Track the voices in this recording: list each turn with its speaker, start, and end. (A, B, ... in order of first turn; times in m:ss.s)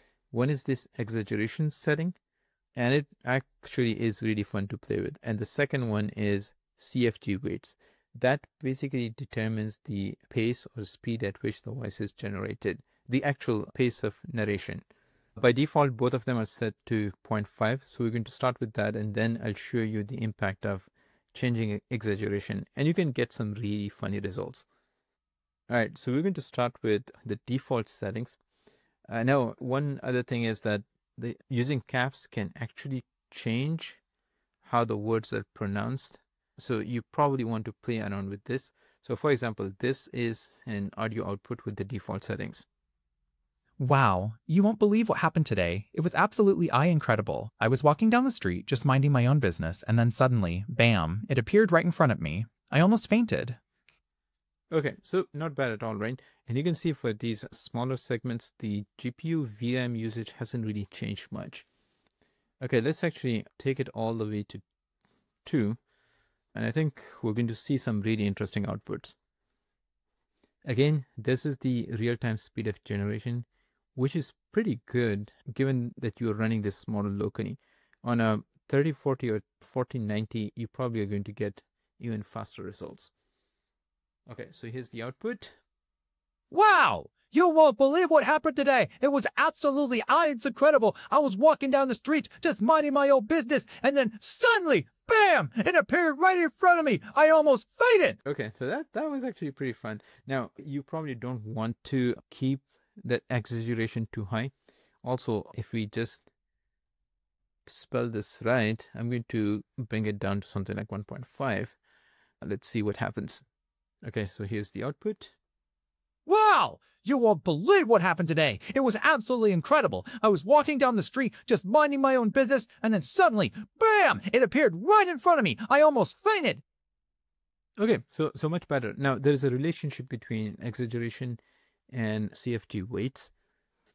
0:00.3-0:02.2 A
0:02.7-0:14.8 A
0:15.4-0:24.6 A
0:25.7-0:28.4 A
0:29.1-0:34.0 A
0:34.6-0:42.6 A
0:43.8-0:53.6 B
0:54.7-1:01.6 A
1:02.6-1:04.6 A
1:05.4-1:05.8 A
1:06.5-1:09.2 A
1:10.6-1:23.1 A
1:24.3-1:25.6 A
1:26.5-1:38.2 B
1:38.2-1:44.5 A
1:45.0-1:46.2 A
1:47.6-1:51.8 A
1:52.4-1:53.4 A
1:54.0-1:55.3 A
1:56.3-2:06.6 B
2:07.8-2:11.4 A
2:11.9-2:13.3 A